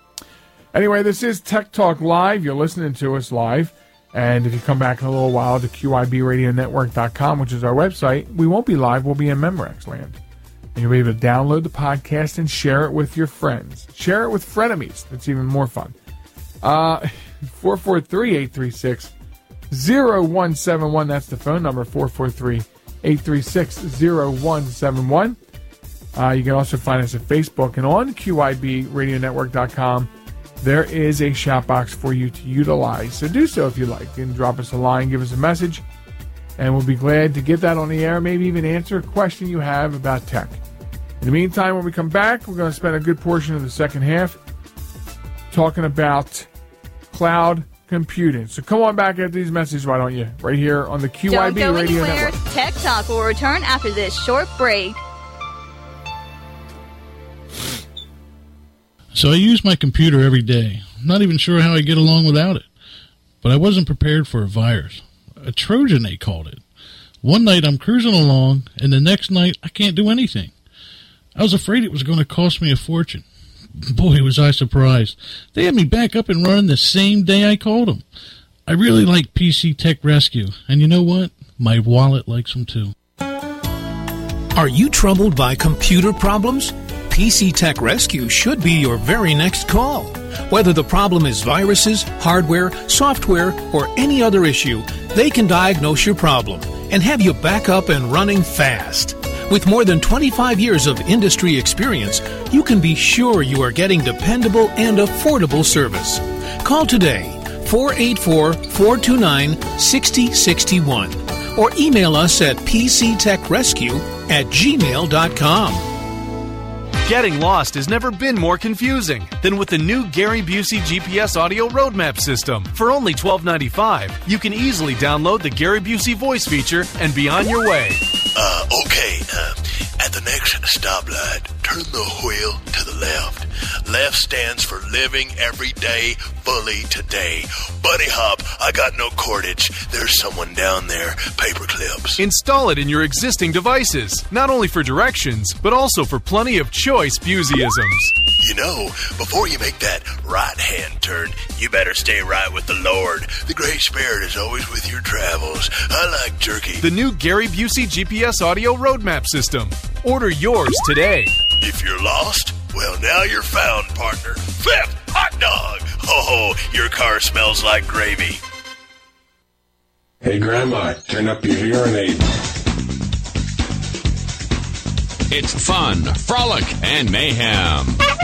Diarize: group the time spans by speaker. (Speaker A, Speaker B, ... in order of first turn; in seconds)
Speaker A: 0.7-10.2, 10.8-16.0, 16.6-19.1, 19.7-25.4, 26.1-35.8, 36.6-40.6, 41.2-44.4, 45.5-46.5, 47.1-52.4
Speaker B: 51.3-55.0
Speaker C: 59.1-62.7, 63.4-66.6, 67.2-70.5, 71.3-73.2, 73.9-78.0, 78.7-82.9
Speaker D: 84.5-115.9
Speaker E: 117.0-128.0, 142.2-148.1, 156.8-161.3
Speaker F: 128.3-142.2, 148.4-156.8, 161.6-168.4
Speaker G: 170.2-172.3
Speaker H: 175.3-178.0